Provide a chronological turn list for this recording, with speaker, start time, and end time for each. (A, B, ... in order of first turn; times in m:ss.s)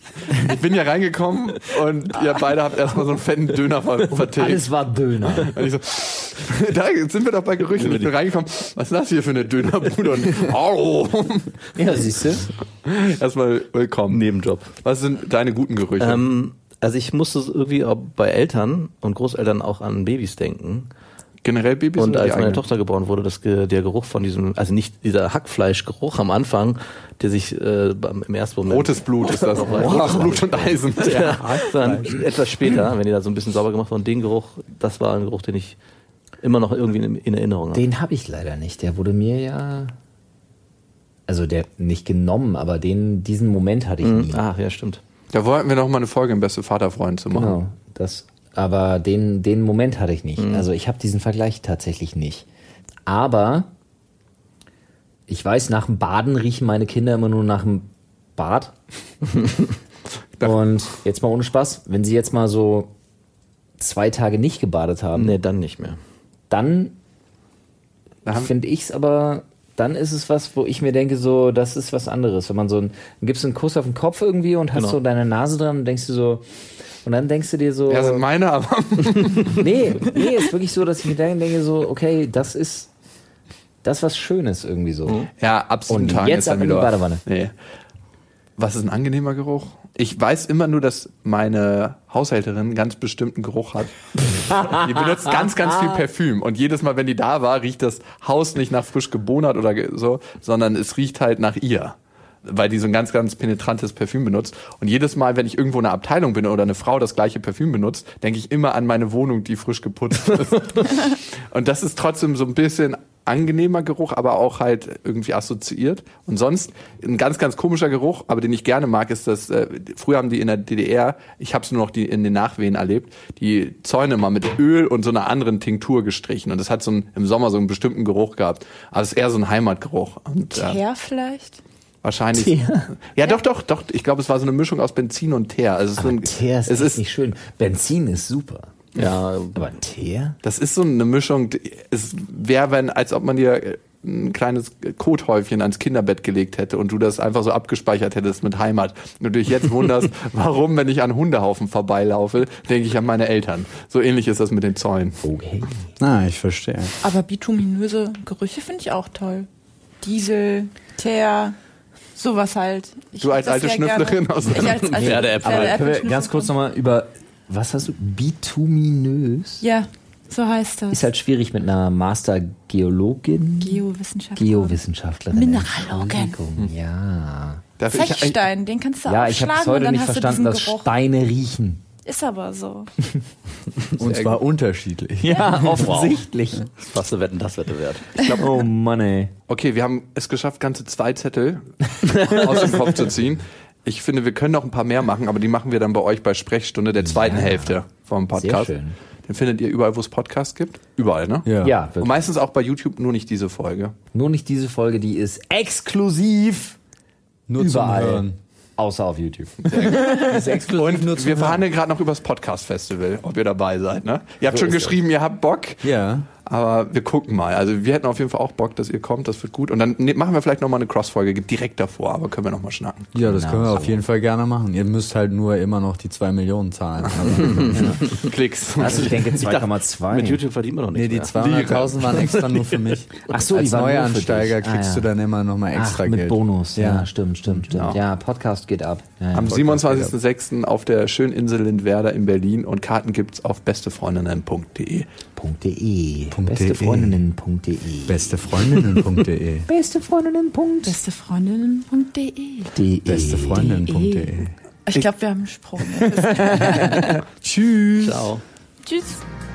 0:00.2-0:04.6 A
0:04.1-0:05.5 B
0:05.4-0:11.7 A
0:07.8-0:08.1 C
0:11.8-0:12.5 B
0:12.8-0:14.2 A
0:14.1-0:14.7 C
0:14.8-0:16.2 A
0:16.0-0:20.9 C
0:21.4-0:22.6 A
0:22.0-0:35.8 C
0:28.6-0:31.5 A
0:29.7-0:30.3 D
0:31.0-0:32.2 D
0:36.4-0:37.8 C
0:37.7-0:39.9 B
0:41.3-0:44.4 B
0:44.0-0:45.0 C
0:45.3-0:47.6 A
0:47.3-0:52.4 B
0:50.4-0:50.7 C
0:53.1-0:53.7 B
0:55.3-0:58.7 B
0:59.4-0:59.7 C
1:00.4-1:02.9 B
1:03.8-1:05.4 B
1:05.1-1:06.0 C
1:06.5-1:07.0 B
1:08.2-1:08.5 A
1:08.3-1:16.4 B
1:17.0-1:18.2 B
1:17.9-1:19.6 A
1:19.6-1:22.9 B
1:23.8-1:25.2 B
1:25.4-1:27.5 A
1:25.9-1:27.2 B
1:28.6-2:10.8 A
1:34.5-1:34.9 B
1:35.4-1:36.0 B
2:10.5-2:11.6 E
2:12.0-2:17.0 A
2:12.3-2:12.9 B
2:16.0-2:18.7 B
2:18.9-2:19.6 C
2:19.5-2:20.4 B
2:20.4-2:35.2 A
2:35.2-2:35.8 B
2:36.0-2:37.0 D
2:37.0-2:39.5 E
2:40.0-2:41.5 E
2:42.2-2:46.5 E
2:43.2-2:45.1 A
2:44.6-2:45.8 C
2:45.0-2:49.6 B
2:49.6-2:51.0 E
2:50.9-2:53.8 B
2:53.6-2:54.8 E
2:54.4-2:57.6 B
2:55.3-2:56.4 E
2:57.8-2:58.4 A
2:57.9-3:00.9 E
2:59.0-3:01.8 B
3:02.0-3:02.9 E
3:04.0-3:06.1 D
3:04.0-3:04.4 A
3:05.2-3:06.6 B
3:05.2-3:05.7 E
3:06.8-3:08.2 C
3:08.2-3:08.4 E
3:08.4-3:09.3 B
3:09.5-3:18.7 A
3:12.2-3:12.9 C
3:17.0-3:17.8 B
3:18.3-3:19.0 B
3:19.2-3:23.9 A
3:21.4-3:21.7 D
3:21.6-3:22.2 B
3:24.1-3:26.8 B
3:27.5-3:28.4 D
3:27.6-3:30.7 B
3:29.6-3:35.9 A
3:29.9-3:31.6 D
3:34.5-3:35.0 B
3:35.8-3:36.2 D
3:36.4-3:43.1 A
3:43.1-3:48.0 D
3:43.2-3:44.0 B
3:47.4-3:48.2 C
3:47.7-3:48.2 B
3:48.1-3:49.2 A
3:48.8-3:50.4 B
3:48.8-3:51.3 C
3:50.9-3:57.6 D
3:51.4-3:52.1 A
3:52.0-3:53.0 C
3:53.3-3:55.1 B
3:55.7-3:59.8 B
3:57.7-3:58.0 A
3:59.3-4:05.0 A
3:59.4-4:00.1 D
4:05.4-4:09.0 B
4:06.3-4:07.2 D
4:08.1-4:09.7 D
4:09.7-4:11.0 B
4:10.8-4:12.8 E
4:12.7-4:14.0 B
4:13.0-4:14.5 D
4:13.8-4:14.3 E
4:14.9-4:17.2 E
4:16.4-4:16.9 B
4:17.4-4:18.3 D
4:18.0-4:18.4 C
4:18.8-4:19.2 E